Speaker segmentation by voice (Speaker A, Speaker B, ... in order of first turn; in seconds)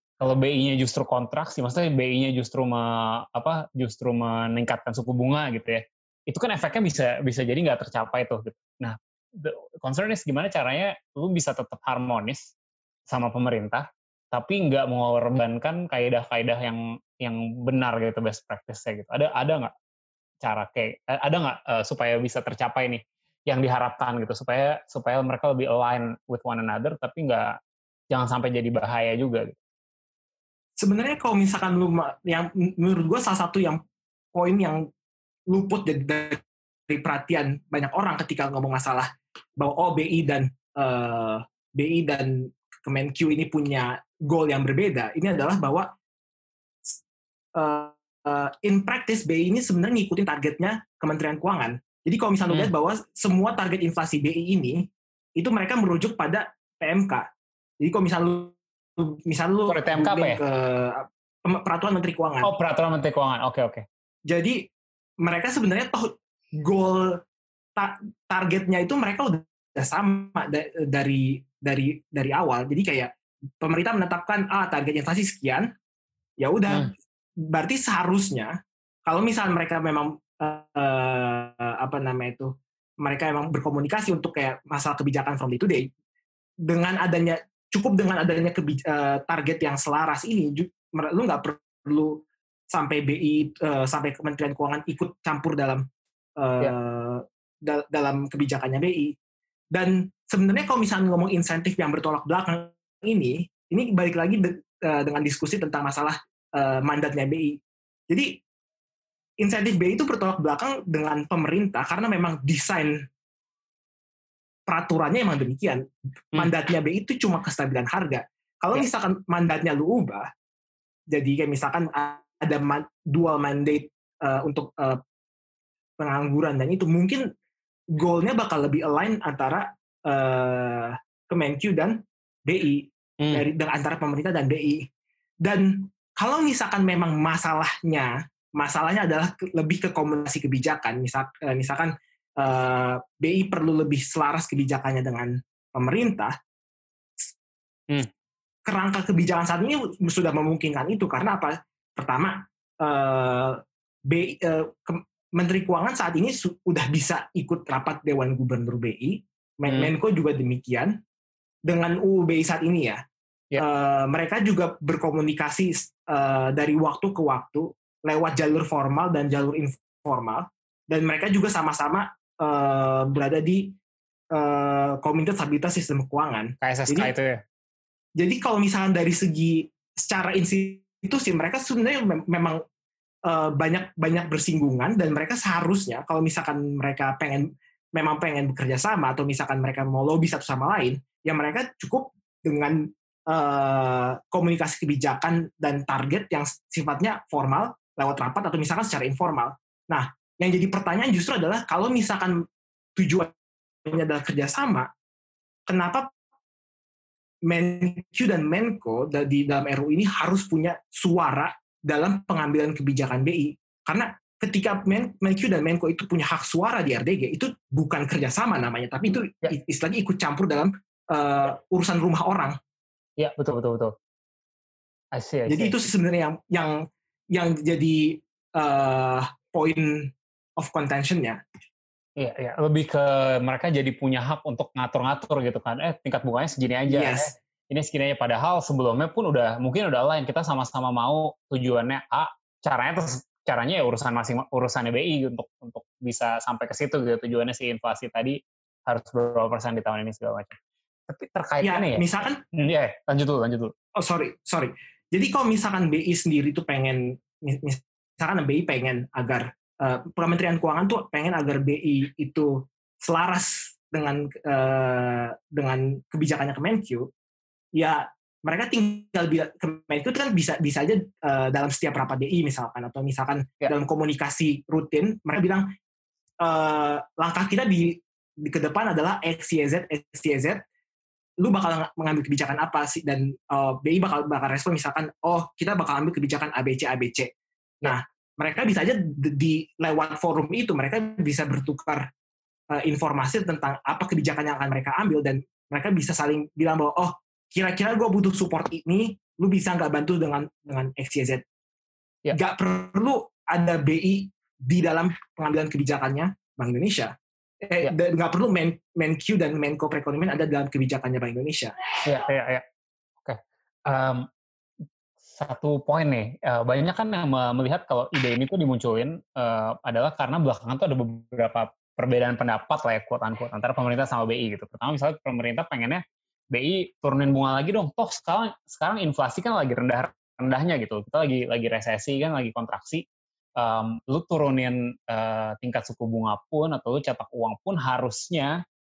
Speaker A: 0.2-12.5, 13.1-19.7, 20.4-27.6, 28.1-29.6, 59.7-60.4, 62.4-63.8, 133.2-133.4, 159.7-159.9, 176.6-177.4, 223.2-223.9, 225.1-225.9, 232.2-253.7, 312.0-312.6, 313.2-314.3, 315.2-333.0, 333.6-338.6
Speaker B: 30.8-33.8, 34.3-34.9, 35.5-45.9, 47.5-54.8, 55.4-57.2, 57.8-62.5, 64.3-64.6, 65.2-67.2, 67.8-75.7, 76.4-76.9, 77.5-78.5, 79.1-85.9, 86.7-95.8, 96.4-99.2, 99.7-107.6, 108.1-108.4, 109.4-113.0, 114.7-115.8, 116.3-120.3, 121.1-125.0, 126.0-127.2, 127.9-134.8, 135.4-146.3, 148.7-160.9, 161.7-163.0, 163.6-173.7, 174.3-177.1, 178.2-182.6, 183.2-202.4, 203.0-203.3, 203.8-204.9, 205.7-206.1, 207.5-222.6, 225.5-231.4, 236.9-237.3, 251.6-252.4, 254.0-267.1, 267.7-275.7, 276.4-280.6, 281.4-287.3, 287.8-292.1, 292.7-301.4, 302.3-307.1, 307.6-311.7